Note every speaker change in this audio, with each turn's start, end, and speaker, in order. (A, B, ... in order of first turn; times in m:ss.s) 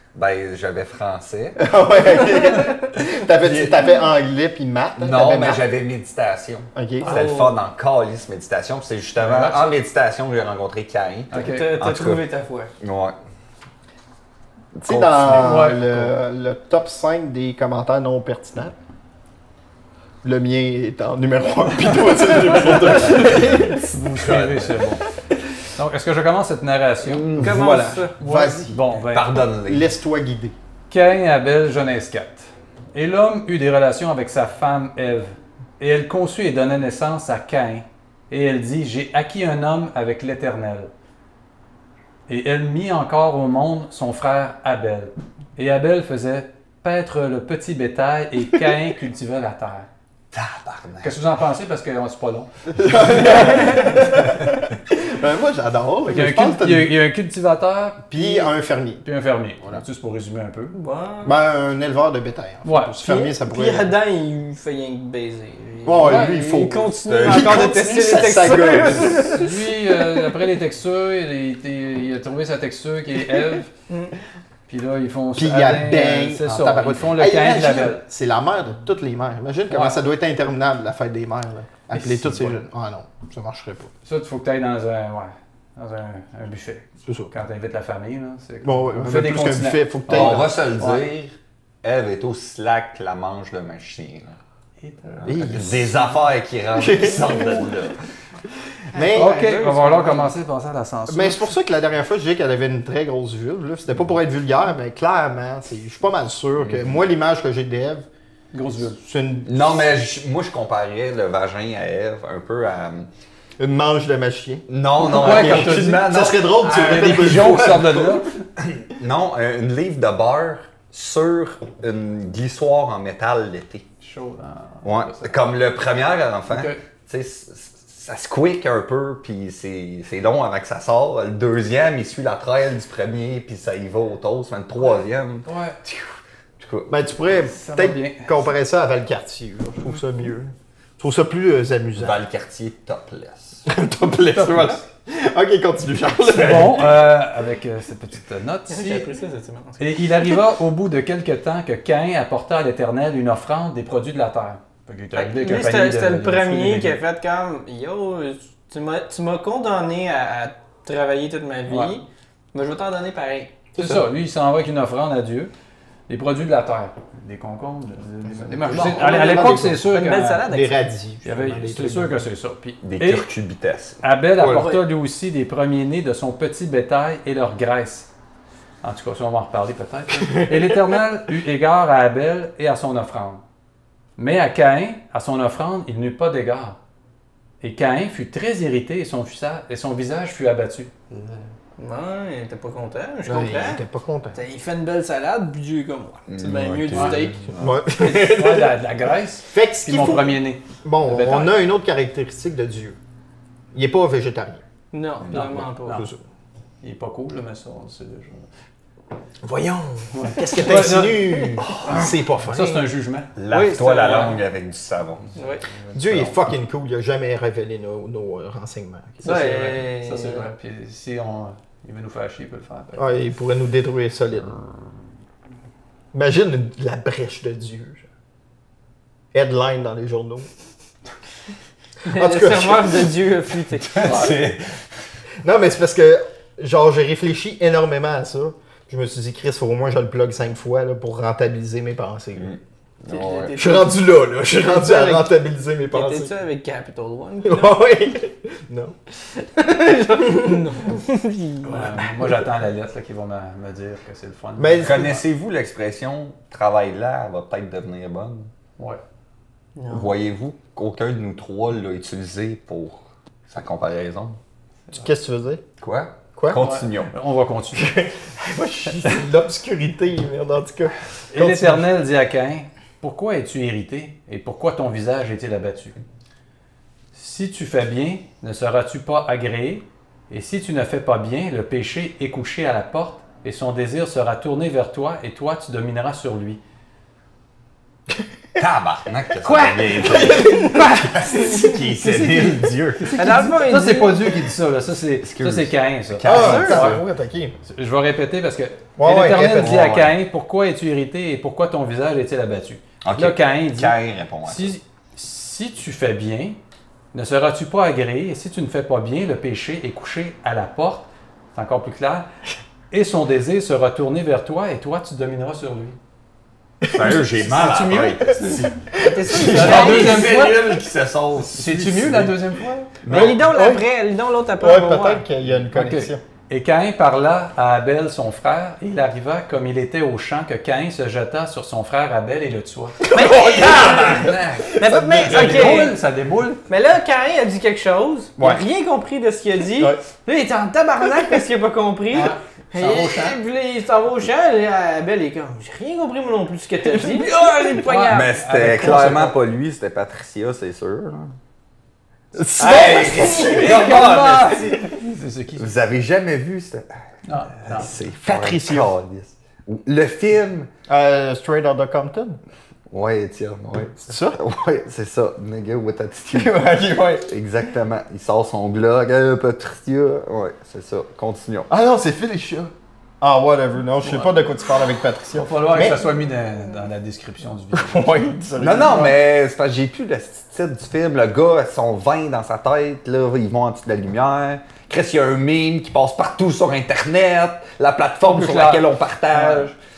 0:00.1-0:01.6 A
0:01.6-0:05.6 B
0:03.4-0:03.8 A
0:05.0-0:12.2 A
0:06.7-0:07.2 B
0:07.0-0:07.6 C
0:09.2-0:09.7 D
0:11.3-0:11.8 D
0:11.3-0:12.7 C
0:12.8-0:13.2 A
0:14.8-0:15.9 A
0:14.8-0:18.7 B
0:15.4-0:15.8 D
0:20.2-0:23.8 B
0:23.1-0:24.8 A
0:23.7-0:25.0 D
0:25.7-0:29.4 D
0:27.0-0:27.9 A
0:27.3-0:28.1 C
0:27.5-0:28.8 B
0:29.0-0:29.9 A
0:29.6-0:30.5 B
0:30.9-0:40.9 D
0:42.3-0:49.9 D
0:50.3-0:51.2 A
0:51.0-0:53.8 D
0:52.8-0:56.9 B
0:56.0-0:58.5 D
0:58.1-0:59.0 B
0:59.0-1:00.7 D
1:00.7-1:01.4 C
1:01.2-1:03.9 B
1:02.6-1:03.0 D
1:03.0-1:10.3 C
1:05.8-1:09.3 B
1:06.0-1:06.3 D
1:07.0-1:07.7 A
1:09.3-1:13.7 D
1:13.9-1:14.1 C
1:14.7-1:18.0 D
1:15.3-1:23.9 B
1:19.7-1:20.0 D
1:21.9-1:22.6 D
1:24.0-1:31.1 D
1:27.0-1:27.3 B
1:28.6-1:30.5 B
1:30.1-1:34.4 A
1:34.8-1:35.3 D
1:35.2-1:38.0 A
1:35.2-1:35.9 B
1:36.7-1:37.7 B
1:38.9-1:39.4 B
1:38.9-1:40.3 C
1:39.1-1:41.5 D
1:41.1-1:48.0 B
1:46.6-1:47.0 A
1:48.5-1:49.0 D
1:49.0-1:49.9 B
1:49.4-1:53.1 A
1:53.6-1:58.2 B
1:54.7-1:57.2 A
1:55.0-1:58.4 D
1:58.6-2:03.8 A
2:04.0-2:05.5 D
2:04.8-2:17.0 A
2:06.5-2:06.8 D
2:15.4-2:15.8 D
2:16.9-2:22.2 B
2:17.5-2:18.4 D
2:22.0-2:23.6 A
2:23.6-2:27.0 B
2:24.3-2:24.8 D
2:26.3-2:29.1 D
2:28.7-2:29.8 C
2:29.8-2:37.0 D
2:35.2-2:43.6 C
2:41.7-2:41.9 D
2:43.8-2:45.5 D
2:46.1-2:50.4 D
2:48.3-2:49.9 B
2:48.7-2:50.8 C
2:50.4-2:52.2 B
2:51.2-2:53.3 D
2:52.8-2:54.0 A
2:54.0-2:58.1 D
2:54.4-2:54.8 C
2:58.8-3:03.4 D
3:04.2-3:06.8 D
3:07.6-3:11.4 D
3:11.8-3:17.5 C
3:13.2-3:14.4 B
3:16.3-3:17.8 A
3:16.9-3:17.3 D
3:17.6-3:18.7 B
3:18.0-3:21.6 D
3:19.4-3:23.0 B
3:23.7-3:24.6 B
3:24.9-3:26.1 C
3:25.3-3:26.1 D
3:25.9-3:26.2 B
3:26.8-3:28.5 D
3:29.4-3:32.9 B
3:30.1-3:33.3 D
3:30.8-3:31.5 C
3:31.6-3:32.1 A
3:33.4-3:35.4 A
3:33.5-3:34.4 C
3:35.4-3:35.6 C
3:35.9-3:39.3 B
3:39.2-3:40.4 C
3:39.2-3:43.2 D
3:43.0-3:44.6 B
3:46.1-3:48.0 B
3:49.3-3:50.5 B
3:52.0-3:54.4 C
3:52.1-3:53.1 B
3:53.8-3:54.8 A
3:55.4-4:02.5 B
4:02.4-4:03.6 A
4:03.1-4:04.0 C
4:03.5-4:06.3 B
4:04.5-4:05.3 C
4:05.9-4:07.9 C
4:07.4-4:09.0 B
4:09.4-4:12.1 C
4:11.6-4:15.2 D
4:14.6-4:15.2 B
4:14.8-4:18.5 A
4:19.8-4:20.1 C
4:19.9-4:24.4 A
4:24.9-4:25.6 B
4:25.8-4:27.1 A
4:26.4-4:26.6 B
4:26.6-4:27.9 D
4:27.7-4:31.9 B
4:31.3-4:36.0 D
4:37.1-4:46.6 D
4:48.6-4:53.2 A
4:49.4-4:51.7 C
4:50.2-4:50.9 B
4:53.0-4:57.0 D
4:53.1-4:54.4 C
4:55.2-4:57.0 A
4:56.2-4:57.5 B
4:56.3-4:56.9 C
4:57.6-5:06.6 D
4:59.0-4:59.8 B
4:59.5-5:00.1 A
5:03.0-5:04.8 A
5:07.1-5:12.3 D
5:12.9-5:16.0 D
5:16.8-5:17.3 B
5:16.9-5:18.8 A
5:17.2-5:18.7 D
5:18.5-5:19.4 B
5:18.9-5:20.5 C
5:19.3-5:22.4 A
5:19.4-5:20.8 D
5:21.4-5:23.0 D
5:23.0-5:23.4 A
5:23.1-5:23.8 B
5:23.1-5:25.2 C
5:24.6-5:26.2 B
5:25.7-5:33.0 D
5:33.0-5:35.9 B
5:33.1-5:36.0 C
5:33.5-5:34.4 A
5:34.1-5:34.6 D
5:35.3-5:36.6 D
5:36.7-5:48.4 C
5:38.4-5:38.6 B
5:42.1-5:43.4 D
5:47.8-5:49.4 D
5:48.0-5:51.3 A
5:52.3-5:54.1 B
5:52.6-5:54.6 A
5:52.7-5:55.7 D
5:53.1-5:53.9 C
5:55.6-5:56.9 A
5:57.2-5:57.9 D
5:57.5-6:00.7 A
5:58.2-5:58.9 B
6:00.9-6:02.4 B
6:02.9-6:06.6 A
6:04.0-6:04.4 B
6:06.3-6:07.3 B
6:07.2-6:11.7 A
6:11.7-6:16.0 B
6:14.0-6:14.4 D
6:15.4-6:19.1 D
6:17.7-6:19.1 B
6:18.6-6:29.7 A
6:28.2-6:29.7 D